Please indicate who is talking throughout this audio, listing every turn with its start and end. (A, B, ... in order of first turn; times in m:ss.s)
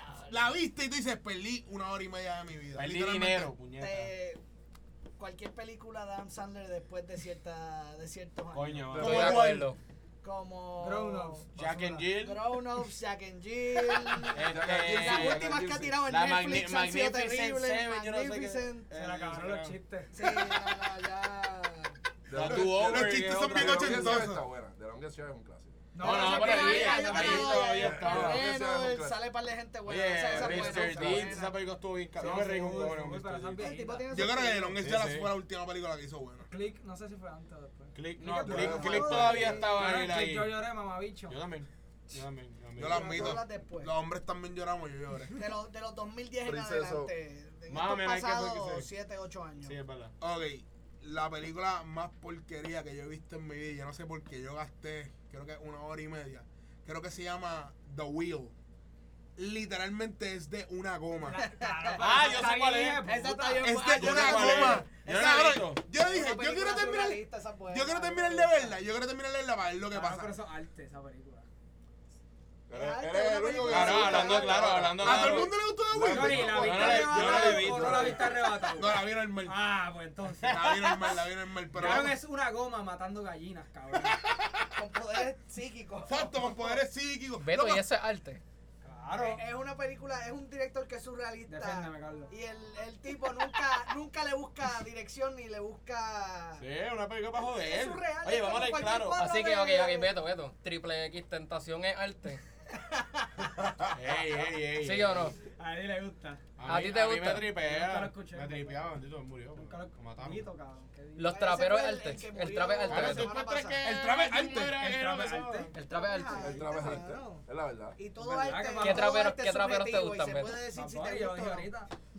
0:00.2-0:03.5 A
0:02.7-0:04.1 B
0:03.8-0:04.4 C
0:05.2-0:09.0 C
0:08.5-0:09.5 B
0:08.9-0:09.4 D
0:08.9-0:09.8 E
0:09.0-0:09.7 A
0:10.2-0:11.4 C
0:10.8-0:12.0 F
0:11.5-0:12.6 B
0:12.0-0:18.9 C
0:14.2-0:19.8 B
0:14.4-0:15.9 D
0:18.9-0:20.1 F
0:20.1-0:22.0 C
0:22.3-0:25.9 D
0:22.3-0:24.3 B
0:22.4-0:24.4 A
0:25.9-0:27.6 F
0:26.0-0:28.5 B
0:26.0-0:31.6 C
0:27.7-0:29.2 D
0:29.9-0:33.6 B
0:32.2-0:34.1 F
0:32.2-0:32.9 C
0:33.6-0:34.8 C
0:34.1-0:36.5 A
0:34.8-0:35.3 B
0:36.5-0:41.4 F
0:37.9-0:40.6 B
0:38.3-0:39.8 C
0:38.4-0:39.4 D
0:41.3-0:43.4 B
0:42.8-0:45.4 A
0:42.8-0:43.9 C
0:45.3-0:49.8 C
0:46.4-0:47.1 D
0:47.7-0:48.8 B
0:49.6-0:50.1 B
0:50.2-0:58.5 A
0:59.4-1:01.4 A
1:01.2-1:03.7 F
1:01.3-1:02.3 C
1:02.0-1:03.0 B
1:03.0-1:08.8 C
1:03.6-1:10.3 A
1:03.8-1:05.8 B
1:09.9-1:11.5 F
1:12.7-1:18.3 D
1:12.7-1:14.8 C
1:13.6-1:15.5 B
1:15.0-1:19.6 A
1:16.0-1:20.7 F
1:16.5-1:18.3 B
1:20.4-1:22.2 A
1:20.5-1:21.2 B
1:21.7-1:24.2 F
1:21.8-1:22.1 B
1:24.8-1:26.8 C
1:26.0-1:27.9 A
1:27.4-1:28.4 E
1:28.8-1:29.4 F
1:29.1-1:36.6 C
1:31.5-1:32.3 F
1:36.6-1:39.2 B
1:37.5-1:40.2 C
1:39.1-1:42.4 E
1:42.8-1:43.3 C
1:43.9-1:45.3 B
1:44.8-1:45.4 E
1:45.5-1:46.4 F
1:46.6-1:50.4 B
1:46.6-1:47.6 E
1:47.6-1:48.9 F
1:49.6-1:51.5 F
1:51.2-1:53.3 E
1:51.2-1:53.8 C
1:52.8-1:55.7 B
1:53.8-1:54.8 A
1:54.7-1:55.7 F
1:55.7-1:56.9 E
1:55.8-2:01.7 C
1:56.4-1:58.0 D
1:58.2-1:59.2 F
1:58.8-2:00.6 E
2:00.6-2:01.9 F